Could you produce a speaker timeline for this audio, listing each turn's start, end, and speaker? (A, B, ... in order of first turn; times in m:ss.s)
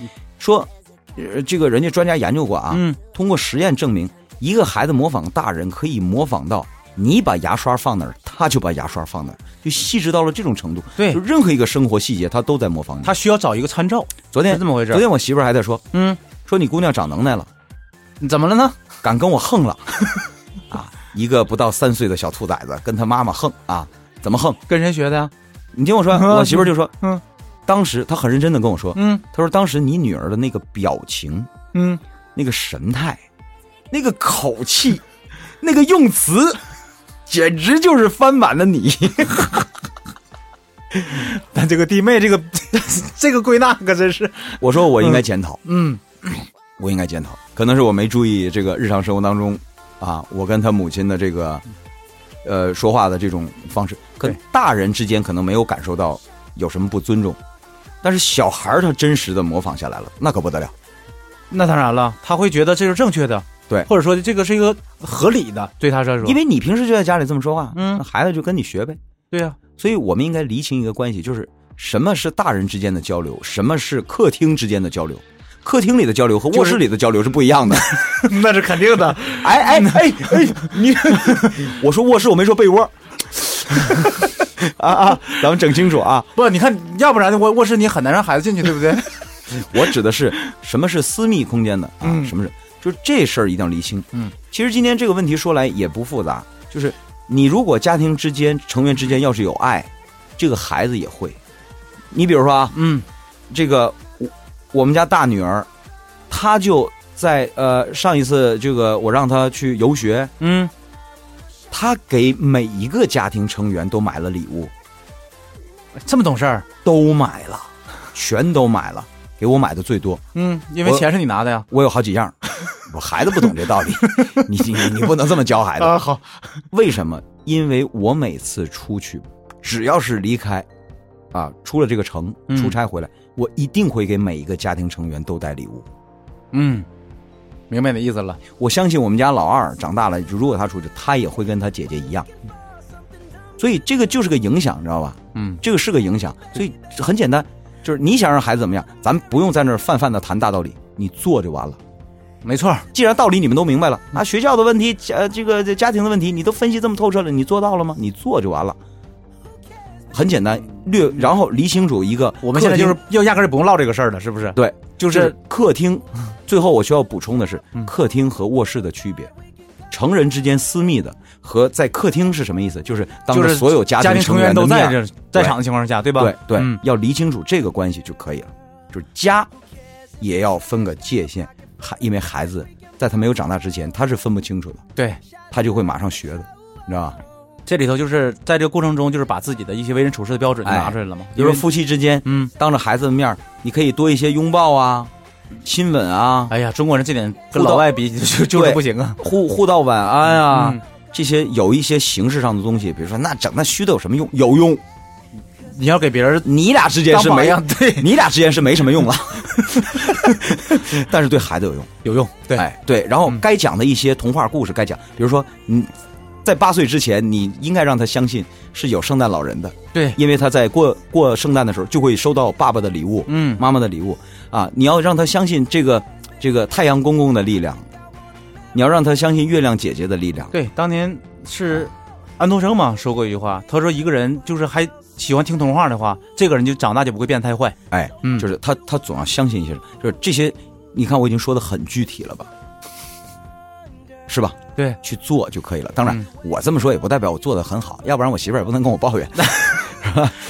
0:00.4-0:13.2 A
0:02.7-0:03.0 B
0:13.0-0:15.0 B
0:14.3-0:17.5 A
0:15.9-0:16.2 B
0:18.2-0:18.8 B
0:19.0-0:24.6 A
0:24.7-0:25.3 B
0:25.7-0:26.9 A
0:26.1-0:27.2 B
0:27.6-0:31.5 A
0:28.9-0:29.2 B
0:31.7-0:32.0 B
0:32.4-0:33.2 A
0:33.9-0:35.0 A
0:35.6-0:36.6 A
0:37.3-0:39.7 A
0:41.0-0:46.3 B
0:44.6-0:45.6 A
0:46.8-0:51.6 A
0:52.4-0:57.4 A
0:58.0-1:00.7 A
1:01.5-1:06.4 B
1:06.2-1:09.0 A
1:07.7-1:08.0 B
1:09.3-1:09.6 B
1:09.8-1:18.2 A
1:16.5-1:16.8 B
1:17.8-1:21.5 B
1:19.2-1:26.3 A
1:26.3-1:29.4 B
1:29.5-1:41.4 A
1:32.0-1:32.3 B
1:42.1-1:42.8 A
1:42.7-1:43.0 B
1:43.5-1:45.7 A
1:46.3-1:50.3 A
1:50.4-1:50.7 B
1:51.7-1:54.7 A
1:56.0-1:56.7 B
1:56.8-2:00.2 A
2:00.3-2:01.6 B
2:00.8-2:01.1 A
2:01.7-2:06.0 A
2:04.1-2:04.4 B
2:05.8-2:06.6 B
2:06.7-2:10.7 A
2:11.3-2:15.8 A
2:12.5-2:12.7 B
2:16.5-2:16.9 B
2:17.7-2:18.4 B
2:18.6-2:22.3 A
2:23.6-2:31.8 A
2:25.3-2:25.6 B
2:32.4-2:32.8 B
2:32.9-2:38.8 A
2:40.1-2:43.0 A
2:42.4-2:45.3 B
2:44.5-2:49.3 A
2:49.9-2:55.6 A
2:53.3-2:56.8 B
2:56.1-2:59.5 A
3:00.2-3:04.8 A
3:05.0-3:05.2 B
3:05.5-3:07.2 A
3:07.6-3:11.6 B
3:10.6-3:15.1 A
3:12.2-3:12.5 B
3:15.6-3:16.5 A
3:16.5-3:19.2 B
3:17.5-3:17.9 A
3:18.5-3:24.8 A
3:20.3-3:20.8 B
3:25.6-3:26.5 B
3:26.4-3:31.9 A
3:27.0-3:28.1 B
3:29.6-3:30.8 B
3:32.0-3:32.7 B
3:32.5-3:35.9 A
3:36.4-3:47.9 A
3:39.9-3:40.2 B
3:43.3-3:43.6 B
3:48.7-3:50.5 A
3:50.5-3:58.5 B
3:57.9-4:02.5 A
4:04.3-4:10.4 A
4:09.4-4:09.8 B